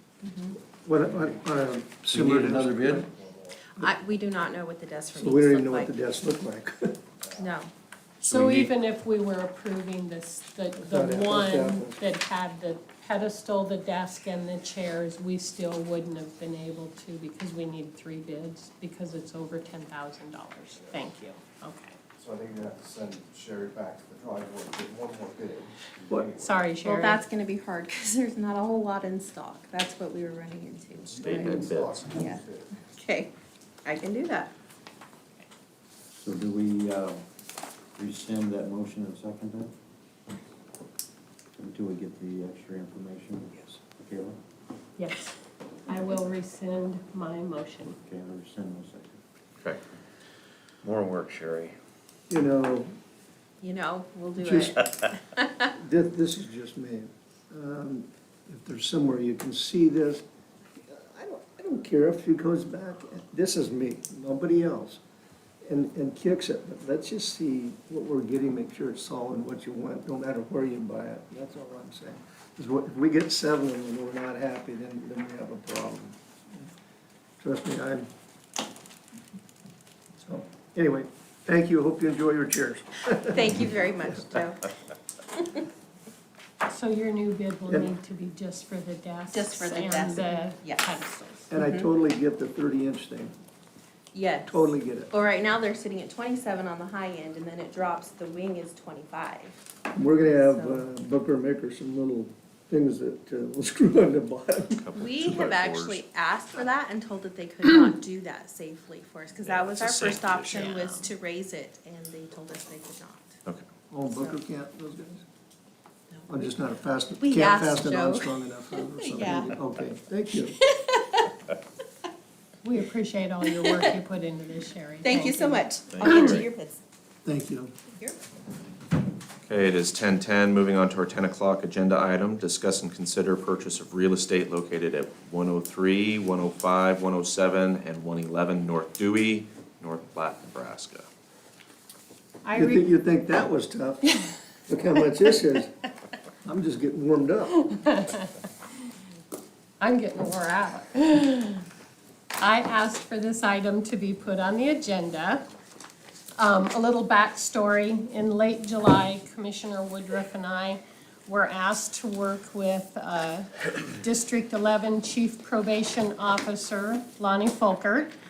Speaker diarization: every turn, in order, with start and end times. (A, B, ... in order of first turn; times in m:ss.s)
0:00.2-0:00.6 A
0:00.8-0:03.0 B
0:01.1-0:01.4 C
0:02.1-0:03.1 D
0:02.5-0:03.6 C
0:03.7-0:06.0 A
0:05.1-0:07.0 B
0:07.2-0:07.5 C
0:07.3-0:07.7 A
0:08.2-0:22.0 E
0:08.3-0:08.7 B
0:10.8-0:12.0 B
0:22.2-0:26.6 C
0:26.4-0:27.2 E
0:26.7-0:33.3 A
0:31.0-0:32.7 C
0:31.2-0:32.2 F
0:33.8-0:34.5 A
0:36.1-0:37.2 D
0:38.0-0:39.7 D
0:41.6-0:44.4 D
0:45.0-0:45.3 E
0:45.8-0:48.0 E
0:48.0-0:49.2 D
0:52.3-0:52.9 B
0:53.6-0:55.7 A
0:54.4-0:54.8 B
0:55.7-1:00.2 B
1:00.8-1:05.0 B
1:05.6-1:16.7 B
1:17.4-1:18.1 B
1:20.2-1:23.6 B
1:23.3-1:24.6 A
1:25.3-1:25.6 A
1:26.6-1:31.5 E
1:29.3-1:31.9 A
1:31.5-1:33.3 B
1:34.1-1:39.6 A
1:34.5-1:35.1 B
1:39.9-1:45.1 B
1:40.2-1:40.9 A
1:44.8-1:46.0 F
1:44.9-1:53.4 A
1:49.5-1:50.7 F
1:50.5-1:51.1 E
1:53.9-1:55.2 B
1:56.1-1:56.5 A
1:56.3-2:00.6 B
1:57.2-1:59.5 A
2:00.4-2:01.3 A
2:02.6-2:05.7 E
2:03.5-2:03.9 A
2:05.0-2:06.8 A
2:05.9-2:06.5 F
2:07.2-2:07.7 B
2:07.9-2:08.2 A
2:09.4-2:21.1 F
2:22.4-2:22.9 E
2:22.5-2:24.1 B
2:24.0-2:24.4 E
2:24.7-2:25.7 B
2:26.4-2:27.7 B
2:27.7-2:28.3 E
2:29.8-2:31.6 E
2:32.4-2:35.4 E
2:36.4-2:48.1 E